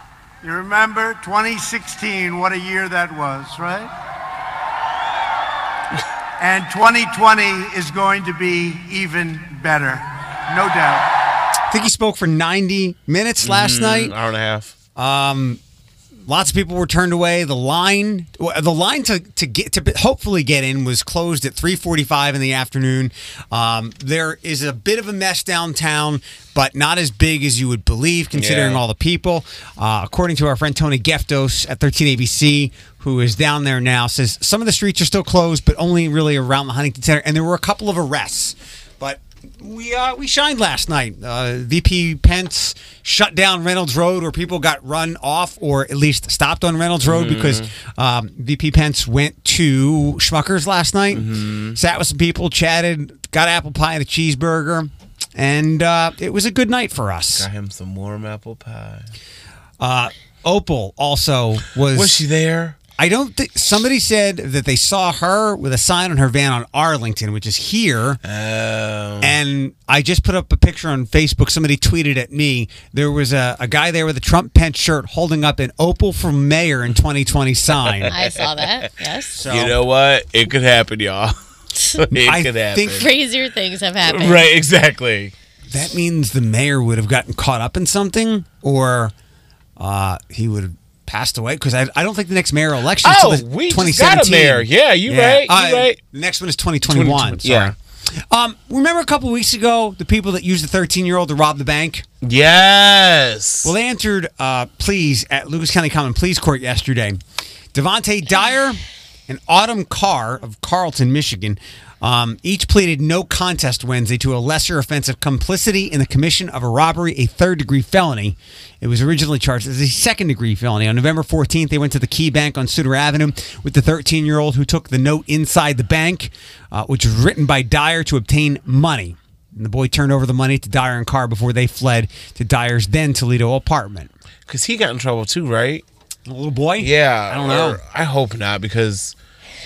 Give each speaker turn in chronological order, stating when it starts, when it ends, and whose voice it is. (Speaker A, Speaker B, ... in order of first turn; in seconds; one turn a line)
Speaker A: 0.4-3.9
Speaker A: 6.4-11.1
Speaker B: 11.7-14.1
Speaker C: 13.4-14.7
Speaker B: 14.9-15.6
Speaker B: 16.2-57.5
Speaker C: 28.3-28.8
Speaker C: 47.0-47.7
Speaker C: 51.1-51.8
Speaker C: 57.4-59.1
Speaker B: 59.8-62.2
Speaker C: 61.9-62.8
Speaker B: 63.0-68.2
Speaker C: 68.2-69.3
Speaker B: 69.2-78.1
Speaker D: 78.1-79.4
Speaker B: 79.3-79.8
Speaker C: 79.5-81.3
Speaker C: 82.0-83.0
Speaker B: 82.2-83.0
Speaker D: 82.9-84.5
Speaker C: 84.0-85.3
Speaker B: 85.7-89.1
Speaker B: 89.8-102.0
Speaker C: 93.0-96.0
Speaker C: 96.8-97.7
Speaker C: 102.2-103.7
Speaker B: 103.6-107.2
Speaker B: 107.7-134.1
Speaker C: 134.5-135.8
Speaker B: 136.3-137.8
Speaker C: 136.8-139.1